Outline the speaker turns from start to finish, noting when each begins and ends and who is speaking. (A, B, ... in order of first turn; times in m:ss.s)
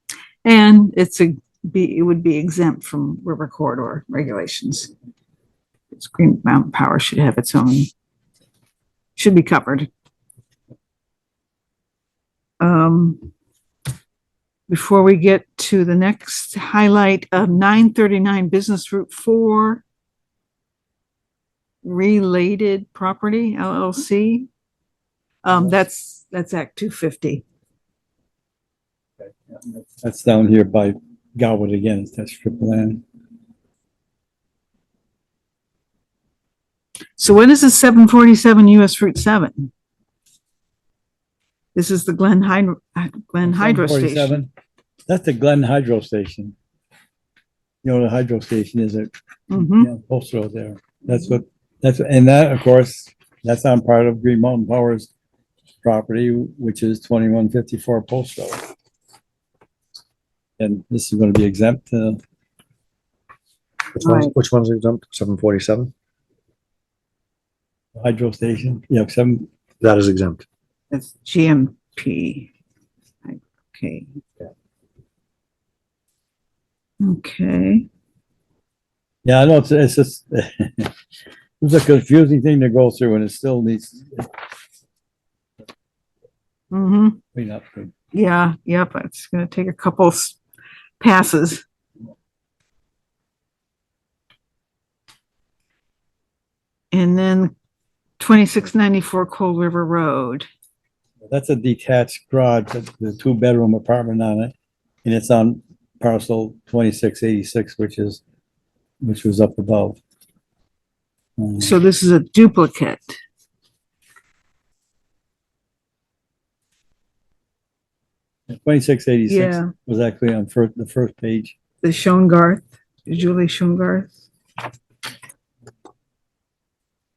0:00.4-0:04.9 A
0:05.9-0:07.9 A
0:09.2-0:09.9 A
0:12.6-0:13.3 A
0:14.7-0:19.8 A
0:21.8-0:24.5 A
0:25.4-0:27.4 A
0:29.5-0:33.0 B
0:37.2-0:39.7 A
0:41.7-0:44.4 A
0:43.4-0:44.5 B
0:45.1-0:46.5 B
0:47.8-0:55.1 B
0:49.5-0:49.9 A
0:55.8-0:58.7 B
1:00.6-1:02.2 B
1:04.0-1:05.9 C
1:04.0-1:04.3 A
1:08.0-1:09.5 B
1:09.8-1:10.4 C
1:10.9-1:12.5 A
1:13.2-1:14.1 A
1:17.0-1:17.8 A
1:19.2-1:20.9 B
1:21.6-1:24.3 B
1:26.7-1:27.2 A
1:27.3-1:27.9 B
1:28.1-1:30.4 A
1:31.0-1:31.6 A
1:36.9-1:37.5 A
1:38.2-1:40.5 A
1:41.3-1:48.2 B
1:49.0-1:50.0 B
1:51.4-1:51.7 B
1:51.6-1:53.2 A
1:58.5-2:01.6 B
1:59.3-1:59.7 A
2:01.8-2:04.1 A